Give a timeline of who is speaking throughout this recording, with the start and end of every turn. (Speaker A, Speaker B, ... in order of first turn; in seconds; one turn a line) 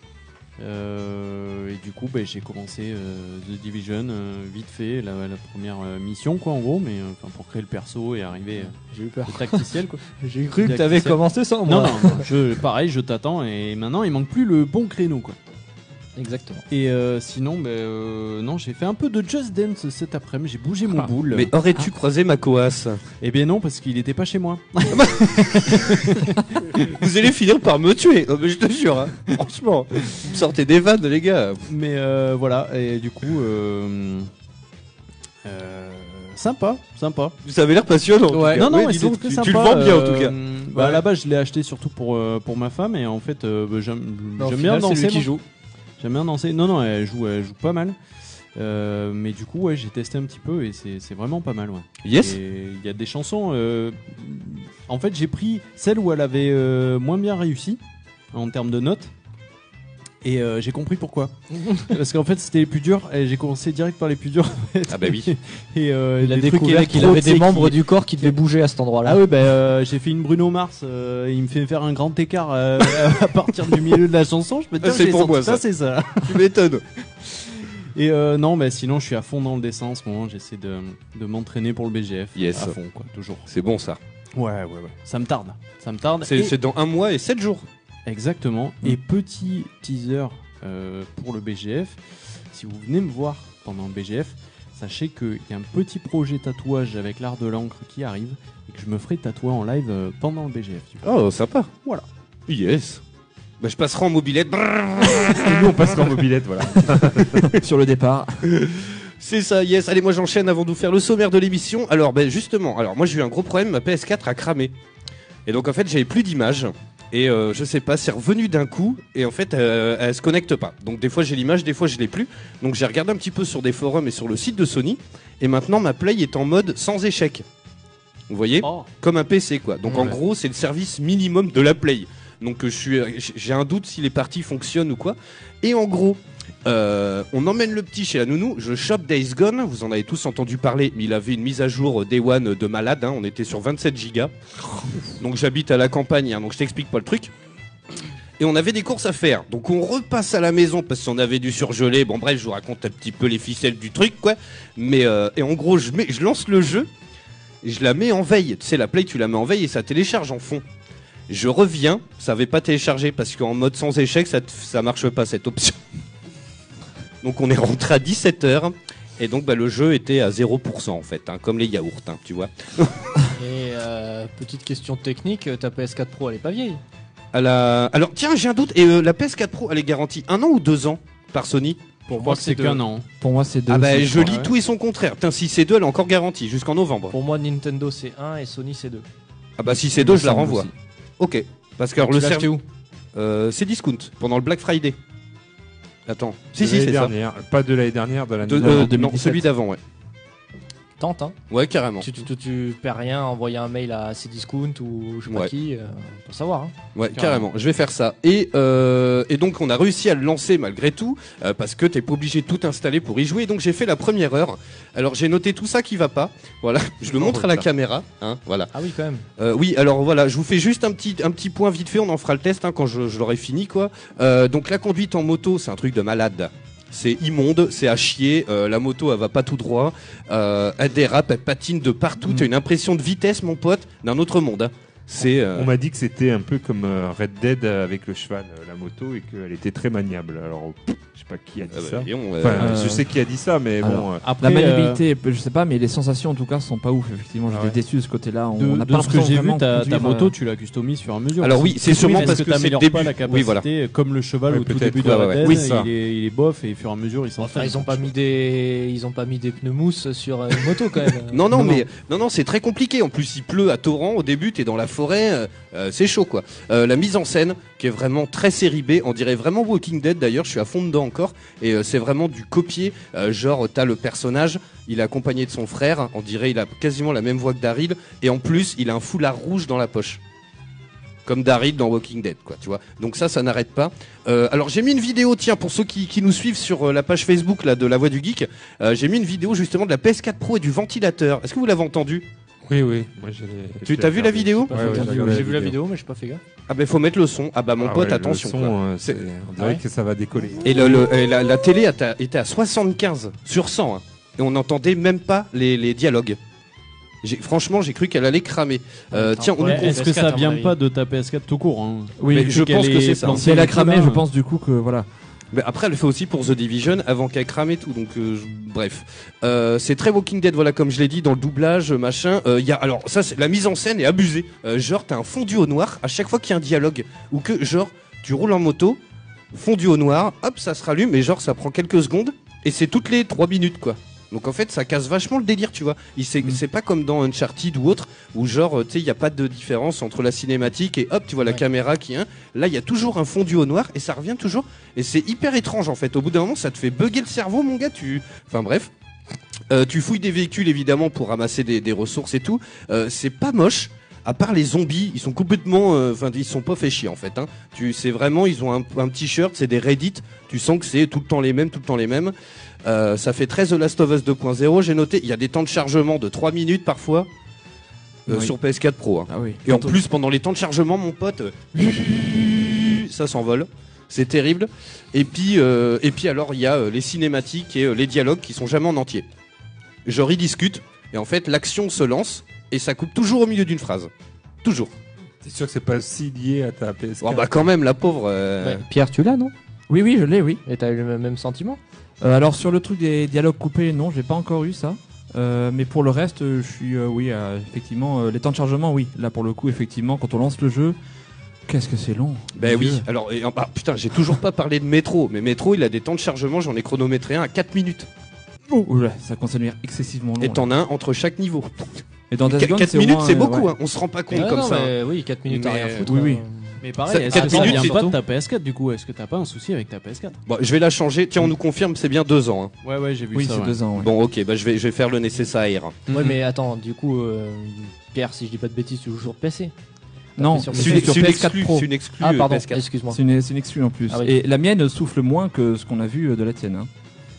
Speaker A: 0.6-10.0
Speaker B: 8.9-12.3
Speaker A: 10.6-15.3
Speaker B: 16.2-16.6
Speaker A: 16.7-21.5
Speaker C: 21.3-23.0
Speaker A: 23.2-26.9
Speaker C: 24.9-26.0
Speaker C: 26.7-31.6
Speaker A: 31.7-34.3
Speaker A: 35.4-37.3
Speaker C: 37.4-40.9
Speaker A: 38.3-45.4
Speaker B: 44.4-45.4
Speaker A: 46.0-48.0
Speaker A: 48.5-57.8
Speaker C: 52.0-52.4
Speaker A: 58.3-59.1
Speaker A: 60.2-68.3
Speaker C: 64.9-65.3
Speaker B: 66.2-69.2
Speaker A: 69.0-76.5
Speaker C: 74.8-75.6
Speaker C: 76.2-76.8
Speaker A: 77.2-83.5
Speaker C: 82.3-82.8
Speaker C: 83.5-84.0
Speaker A: 84.3-86.5
Speaker C: 86.2-87.7
Speaker A: 88.1-101.1
Speaker C: 101.0-101.7
Speaker C: 102.5-103.0
Speaker C: 103.6-105.8
Speaker D: 105.0-107.6
Speaker E: 107.0-108.4
Speaker C: 108.4-114.7
Speaker C: 115.5-127.4
Speaker C: 128.3-144.3
Speaker A: 128.6-128.9
Speaker C: 145.2-147.3
Speaker C: 148.4-156.9
Speaker C: 157.6-160.6
Speaker C: 161.3-165.8
Speaker C: 167.2-173.1
Speaker B: 173.3-176.8
Speaker C: 177.3-181.8
Speaker B: 182.1-182.8
Speaker A: 182.1-183.1
Speaker E: 183.2-184.5
Speaker C: 183.7-187.1
Speaker B: 187.1-189.1
Speaker C: 189.6-192.6
Speaker E: 190.1-190.6
Speaker B: 192.0-192.6
Speaker C: 193.1-194.9
Speaker C: 196.1-197.1
Speaker D: 196.6-199.3
Speaker C: 198.4-199.8
Speaker E: 198.7-199.0
Speaker B: 201.0-201.3
Speaker C: 201.5-202.1
Speaker B: 202.0-206.7
Speaker C: 206.9-218.7
Speaker A: 207.1-207.5
Speaker B: 218.7-219.2
Speaker C: 219.4-235.7
Speaker D: 235.5-244.2
Speaker C: 241.7-242.8
Speaker E: 242.6-243.1
Speaker E: 243.8-250.3
Speaker A: 244.2-245.0
Speaker D: 247.5-247.8
Speaker A: 248.6-258.1
Speaker C: 251.4-253.7
Speaker D: 254.5-255.2
Speaker C: 255.0-255.9
Speaker B: 257.4-261.8
Speaker C: 261.3-280.2
Speaker C: 281.2-292.2
Speaker D: 292.6-295.8
Speaker C: 293.8-295.2
Speaker B: 294.7-296.4
Speaker C: 296.7-299.2
Speaker D: 297.8-301.1
Speaker C: 300.6-306.4
Speaker C: 307.2-310.0
Speaker B: 309.1-310.8
Speaker A: 309.6-314.2
Speaker E: 312.2-312.6
Speaker C: 312.3-313.4
Speaker E: 313.3-315.1
Speaker C: 315.5-329.0
Speaker C: 329.5-348.9
Speaker C: 349.7-367.3
Speaker C: 368.3-379.2
Speaker E: 368.3-368.5
Speaker E: 369.3-370.0
Speaker C: 380.1-384.1
Speaker C: 384.6-384.9
Speaker D: 385.4-387.7
Speaker C: 387.2-388.8
Speaker B: 388.6-389.5
Speaker E: 389.9-390.6
Speaker B: 390.6-391.8
Speaker E: 392.2-401.0
Speaker E: 401.7-403.0
Speaker C: 402.5-408.1
Speaker E: 408.8-410.7
Speaker C: 410.4-411.9
Speaker E: 412.3-413.7
Speaker C: 412.4-414.9
Speaker B: 414.3-418.2
Speaker C: 415.5-416.1
Speaker E: 416.0-416.4
Speaker A: 416.8-420.4
Speaker C: 417.1-418.0
Speaker C: 420.5-422.7
Speaker A: 422.8-423.8
Speaker E: 423.3-424.1
Speaker C: 423.9-426.0
Speaker A: 426.1-426.3
Speaker B: 426.1-429.7
Speaker B: 430.4-431.5
Speaker E: 430.4-431.9
Speaker C: 430.7-432.8
Speaker B: 432.2-433.2
Speaker E: 433.1-436.9